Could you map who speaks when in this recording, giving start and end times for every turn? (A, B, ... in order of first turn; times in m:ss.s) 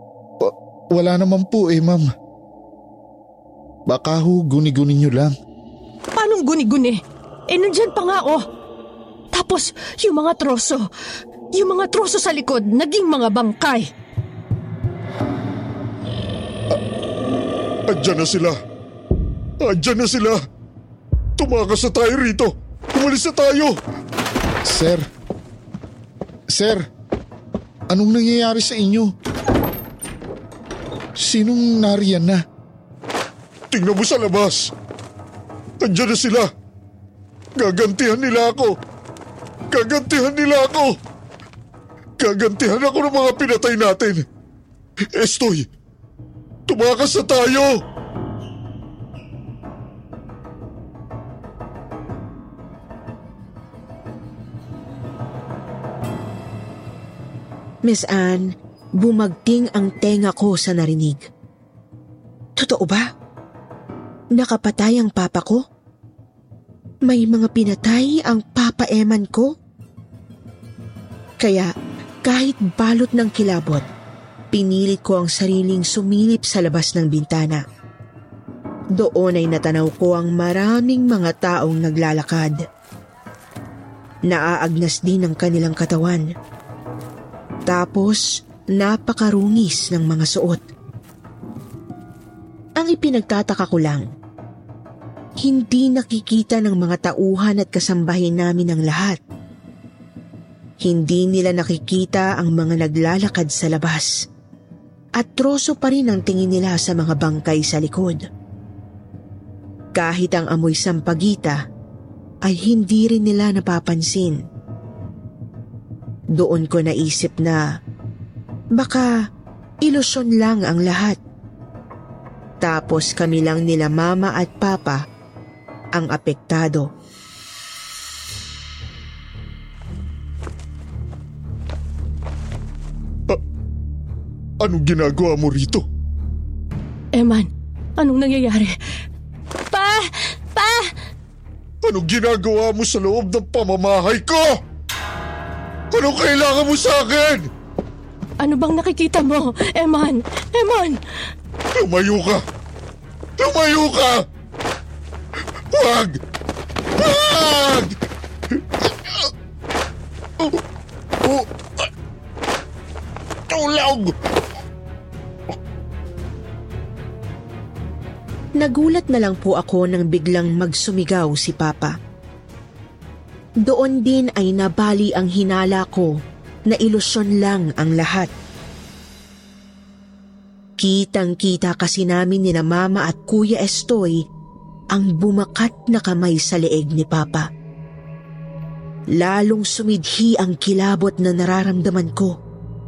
0:00.4-0:02.1 A
0:03.9-0:05.3 A
0:06.2-0:08.4 B
0:09.3-0:10.8 B
0:11.6-0:13.9 B
0:17.9-0:18.6 A
0:19.6-0:20.4 A
0:21.4-0:23.8 A
0:24.6-0:25.0 A
0:26.5-0:26.8 A
0:27.9-0:29.1 A
0:31.2-0:32.4 A
0:33.7-0:34.7 A
0:35.8-0:36.5 A
0:37.6-0:38.8 A
0:39.7-0:41.0 A
0:42.2-0:44.2 A
0:45.1-0:45.7 A
0:46.7-0:47.7 A
0:57.8-1:01.2 C
1:02.6-1:03.0 C
1:04.3-1:05.6 C
1:07.0-1:09.5 C
1:11.4-1:11.7 C
1:12.2-1:13.8 C
1:14.5-1:17.6 C
1:18.9-1:22.6 C
1:24.3-1:26.2 C
1:27.7-1:30.6 C
1:32.8-1:34.0 C
1:35.4-1:39.2 C
1:40.8-1:44.2 C
1:45.2-1:48.2 C
1:49.9-1:51.6 C
1:52.4-1:54.4 C
1:56.3-1:57.6 C
1:58.7-1:59.1 C
1:59.8-2:01.2 C
2:02.6-2:05.0 C
2:05.9-2:06.9 C
2:14.6-2:15.8 A
2:17.1-2:18.7 B
2:19.7-2:20.9 B
2:21.8-2:24.5 A
2:25.9-2:27.5 A
2:28.4-2:31.0 B
2:31.8-2:32.4 A
2:33.4-2:34.2 A
2:35.7-2:36.2 A
2:37.0-2:37.9 A
2:38.6-2:39.3 A
2:43.5-2:44.1 A
2:48.6-2:51.9 C
2:53.6-2:56.1 C
2:56.7-2:58.3 C
3:00.8-3:04.2 C
3:04.9-3:07.5 C
3:09.1-3:12.4 C